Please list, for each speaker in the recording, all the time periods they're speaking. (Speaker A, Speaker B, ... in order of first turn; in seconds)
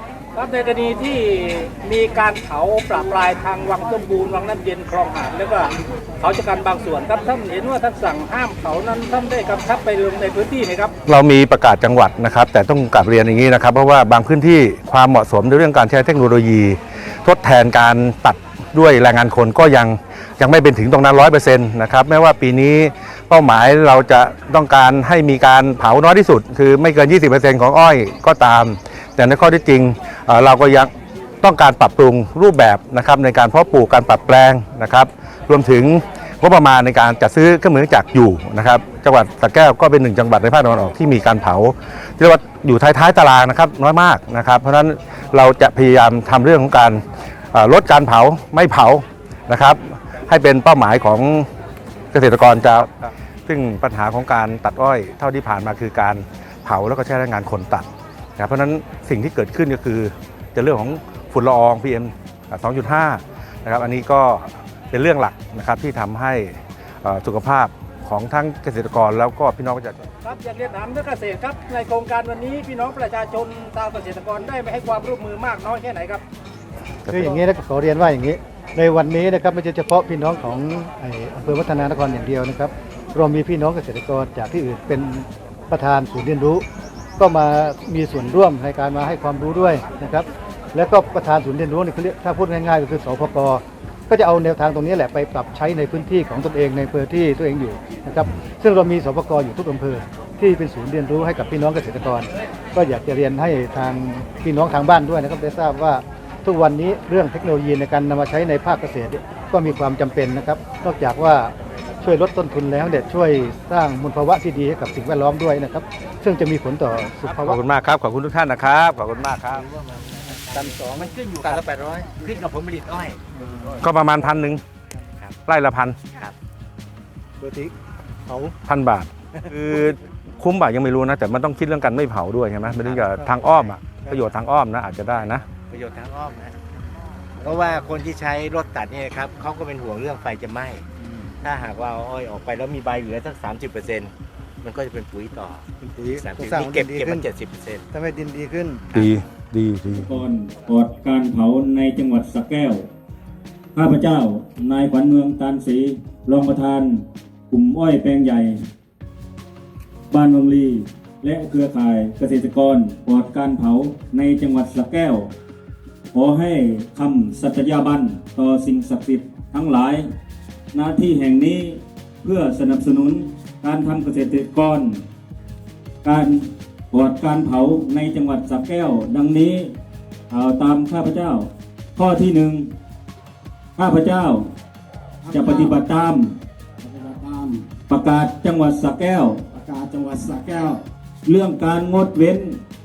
Speaker A: 0.4-5.6, 6.2-10.9, 70.2-76.2
Speaker B: 11.1-51.5, 52.1-70.1, 77.1-77.3, 117.3-119.7, 123.8-124.6, 125.5-126.0, 128.7-135.4, 148.9-150.1
Speaker C: 77.1-86.7, 87.2-117.6, 120.6-121.0, 127.4-127.7, 145.8-147.3, 147.9-148.9
Speaker D: 119.5-123.2, 126.1-126.4, 132.8-133.8, 135.7-136.6, 137.4-140.9, 141.4-147.9
Speaker E: 149.9-152.9, 153.8-158.6, 160.1-165.3, 166.1-170.1, 170.7-175.0, 176.0-179.8, 180.3-182.7, 183.8-184.5, 185.3-186.4, 187.9-189.4, 191.2-192.6
Speaker F: 185.2-185.9, 186.8-187.7, 189.5-190.8